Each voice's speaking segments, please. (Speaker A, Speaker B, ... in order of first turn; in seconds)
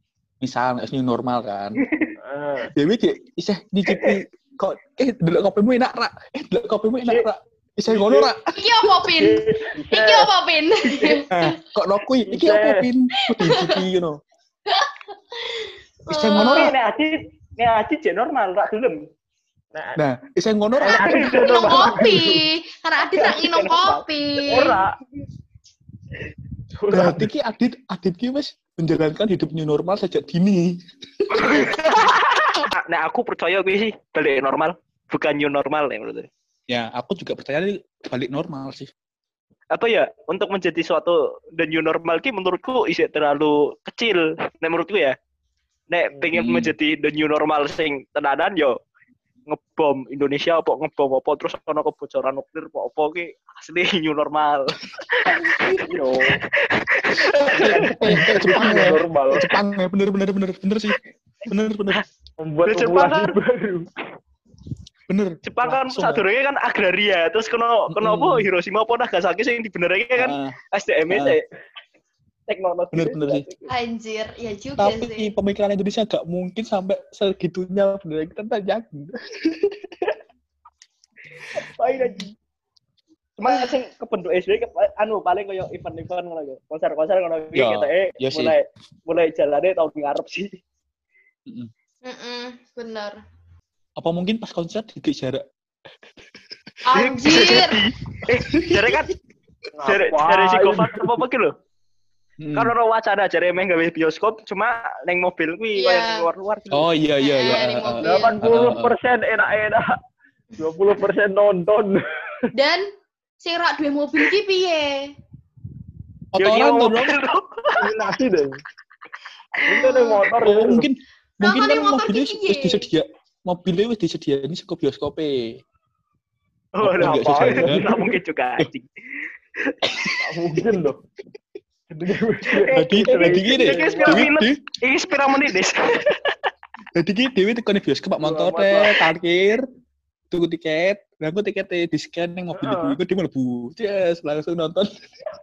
Speaker A: 0.4-1.9, 2.7-8.5, 11.3-14.2, 16.1-16.7, 19.9-21.8, 26.9-31.7, 36.7-38.9, 46.3-46.7, 55.3-55.9, 57.2-62.0, 65.1-66.2, 67.9-68.5, 70.2-70.5, 71.1-71.4, 72.9-73.5, 74.8-80.0, 87.5-88.6, 94.0-95.4, 98.5-99.0, 102.4-102.7, 106.7-108.9, 116.3-117.1, 120.4-125.5, 126.8-127.8, 129.8-130.8, 132.7-134.6, 136.9-139.6, 140.3-144.9
Speaker B: 1.8-2.1, 3.9-4.2, 16.4-19.1, 20.8-22.1, 23.0-24.7, 31.3-36.3, 39.7-45.1, 45.9-48.8, 49.5-58.7, 62.6-63.4, 65.4-71.5, 72.5-73.7, 81.4-82.3, 83.4-90.5, 96.9-99.1, 99.8-101.5, 102.5-106.9, 116.4-118.1, 119.6-120.0, 126.8-129.8, 132.5-136.4
Speaker C: 2.2-2.7, 7.9-8.2, 9.2-10.3, 12.3-12.9, 19.7-20.0, 20.8-22.4, 24.5-25.0, 26.8-27.3, 55.9-56.4, 57.6-59.5, 62.4-63.9, 99.8-101.2, 108.0-109.9, 110.6-112.0, 117.8-118.6, 119.6-120.9, 127.0-128.1, 130.2-131.0, 131.9-134.3, 138.2-139.0, 142.6-143.0
Speaker D: 8.5-11.5, 13.2-13.8, 14.7-16.7, 21.1-24.8, 73.7-75.3, 92.0-93.2, 96.9-97.8, 105.8-106.2, 107.2-108.5, 112.5-112.9, 113.4-115.1, 119.7-120.2, 121.4-122.9